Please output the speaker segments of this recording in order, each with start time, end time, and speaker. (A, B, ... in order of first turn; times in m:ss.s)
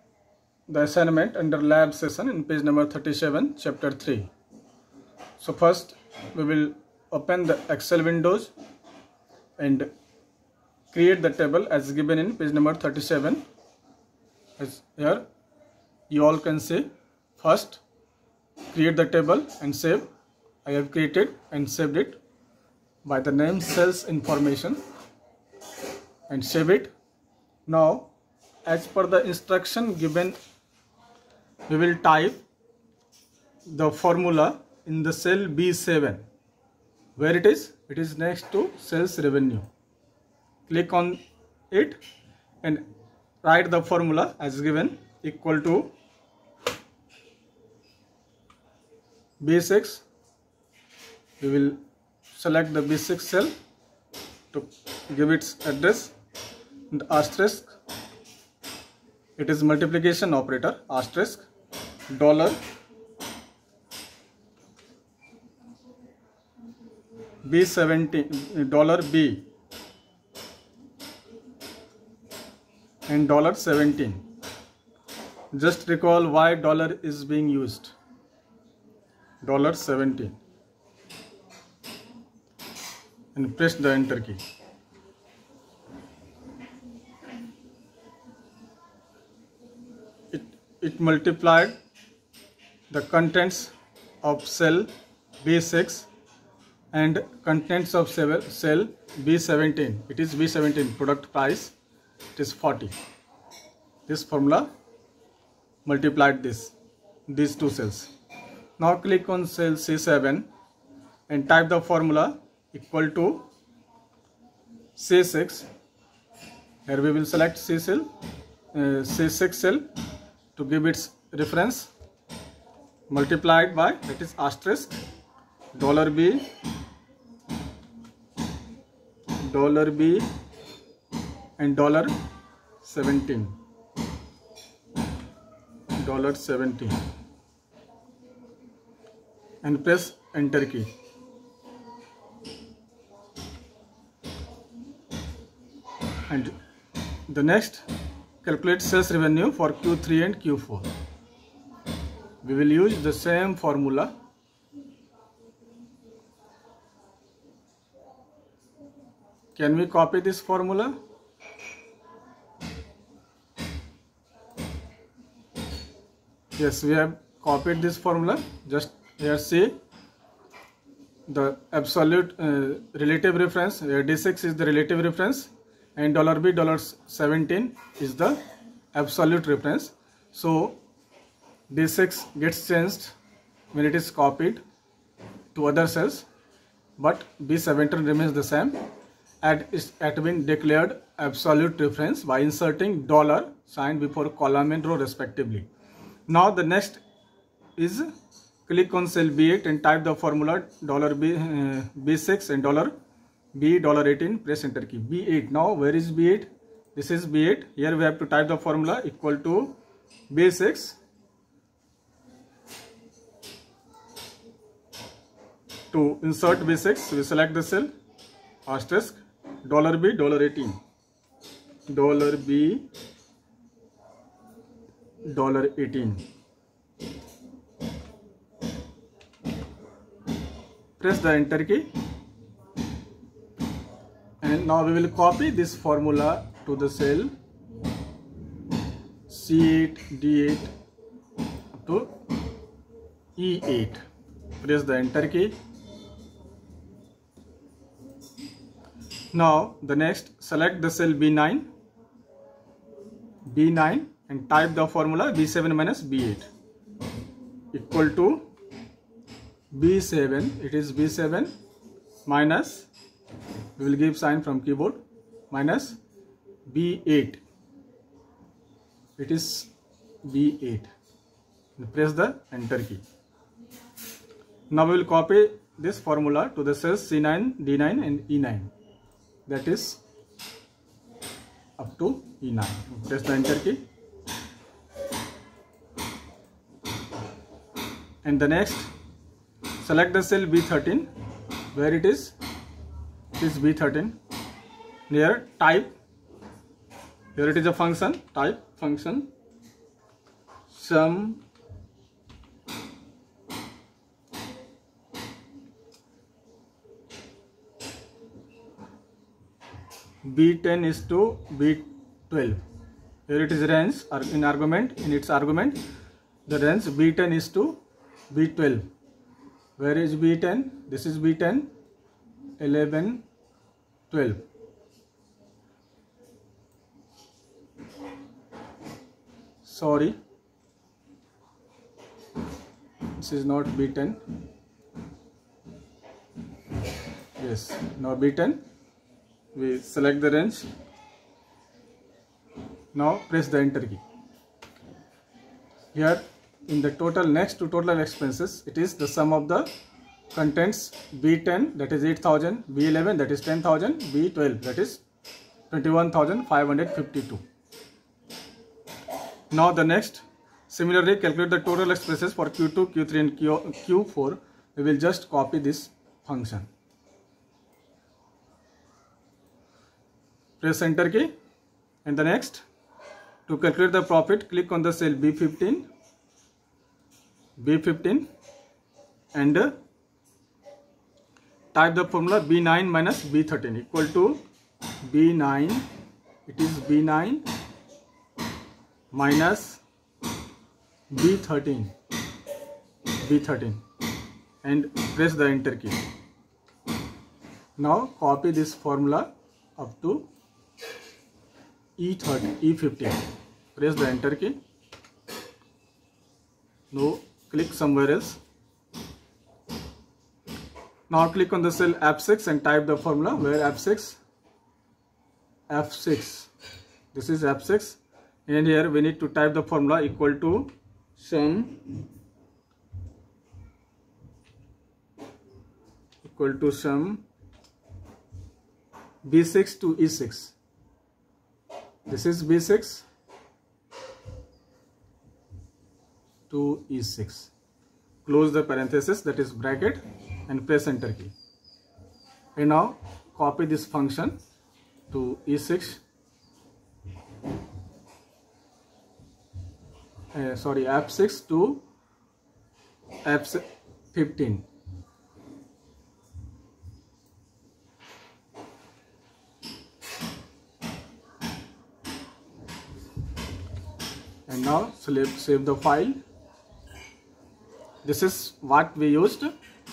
0:00.7-0:04.3 A
0:05.4-0:08.5 A
0:09.6-0:09.9 A
0:10.9-0:13.4 A
0:14.6-0:15.2 A
0:16.1-0:17.8 A
0:18.7-0:20.1 A
0:20.6-0:22.2 A
0:23.0-0:24.8 A
0:26.3-0:26.9 A
0:27.7-0:28.1 A
0:28.7-0:30.4 A
0:31.7-0:32.4 A
0:33.7-0:36.2 A
0:37.2-0:39.7 A
0:40.7-0:41.2 A
0:41.7-0:42.0 A
0:43.4-0:45.9 A
0:49.4-0:50.0 A
0:51.4-0:51.8 A
0:52.4-0:53.5 A
0:54.5-0:56.1 A
0:56.9-0:57.7 A
0:59.4-1:01.5 A
1:02.1-1:02.6 A
1:07.4-1:09.5 A
1:13.1-1:14.2 A
1:15.5-1:17.9 A
1:19.4-1:20.4 A
1:23.4-1:24.4 A
1:30.3-1:31.7 A
1:32.9-1:34.9 A
1:35.4-1:36.1 A
1:36.9-1:41.8 A
1:42.4-1:43.0 A
1:44.1-1:44.7 A
1:45.8-1:46.7 A
1:47.3-1:48.1 A
1:48.8-1:50.5 A
1:51.3-1:53.5 A
1:55.0-1:55.7 A
1:56.9-1:58.1 A
1:58.7-1:59.8 A
2:00.6-2:01.9 A
2:03.1-2:05.0 A
2:05.7-2:06.5 A
2:09.4-2:10.3 A
2:11.6-2:12.1 A
2:12.8-2:13.6 A
2:16.0-2:17.0 A
2:19.6-2:20.9 A
2:26.3-2:26.6 A
2:27.3-2:27.9 A
2:28.4-2:30.9 A
2:32.4-2:34.1 A
2:39.6-2:41.0 A
2:46.6-2:49.7 A
2:51.3-2:58.4 A
2:58.9-3:00.8 A
3:01.7-3:03.2 A
3:03.7-3:04.6 A
3:05.6-3:06.3 A
3:07.0-3:08.8 A
3:09.4-3:15.7 A
3:16.3-3:17.0 A
3:17.8-3:18.1 A
3:18.7-3:22.9 A
3:23.5-3:29.8 A
3:30.3-3:31.0 A
3:35.9-3:37.9 A
3:38.6-3:40.8 A
3:41.9-3:42.9 A
3:45.2-3:46.2 A
3:51.0-3:51.9 A
3:54.4-3:57.3 A
3:59.3-4:00.7 A
4:01.7-4:02.1 A
4:03.4-4:04.0 A
4:04.6-4:05.5 A
4:09.3-4:11.7 A
4:13.5-4:16.5 A
4:17.7-4:18.5 A
4:19.7-4:21.5 A
4:22.2-4:22.9 A
4:23.8-4:26.0 A
4:26.7-4:27.4 A
4:29.2-4:29.7 A
4:30.2-4:30.9 A
4:31.8-4:33.0 A
4:34.7-4:38.7 A
4:39.5-4:40.0 A
4:41.8-4:43.8 A
4:48.2-4:48.9 A
4:49.8-4:51.1 A
4:51.7-4:52.4 A
4:53.4-4:54.2 A
4:55.1-4:55.9 A
4:57.4-4:59.3 A
5:00.7-5:01.4 A
5:10.2-5:12.6 A
5:13.3-5:15.8 A
5:16.5-5:17.8 A
5:18.3-5:18.9 A
5:19.8-5:21.7 A
5:22.6-5:23.2 A
5:24.1-5:24.5 A
5:29.6-5:30.2 A
5:33.2-5:34.2 A
5:37.4-5:38.6 A
5:39.5-5:40.7 A
5:42.9-5:44.0 A
5:45.9-5:49.7 A
5:50.3-5:55.0 A
5:55.7-5:57.4 A
5:59.5-6:06.7 A
6:10.6-6:11.3 A
6:12.0-6:12.6 A
6:13.5-6:15.9 A
6:17.6-6:18.3 A
6:19.3-6:19.7 A
6:21.7-6:24.4 A
6:25.0-6:25.9 A
6:26.5-6:27.4 A
6:29.1-6:29.8 A
6:31.1-6:31.9 A
6:33.2-6:33.8 A
6:34.6-6:36.0 A
6:37.8-6:40.3 A
6:42.0-6:43.2 A
6:43.8-6:44.6 A
6:46.9-6:48.4 A
6:51.1-6:54.2 A
6:55.7-6:56.5 A
6:57.1-7:02.0 A
7:06.2-7:07.2 A
7:09.2-7:10.5 A
7:12.1-7:13.0 A
7:16.5-7:17.5 A
7:18.2-7:21.3 A
7:22.6-7:24.4 A
7:25.1-7:26.0 A
7:30.3-7:31.8 A
7:33.2-7:34.7 A
7:44.5-7:46.2 A
7:48.0-7:49.5 A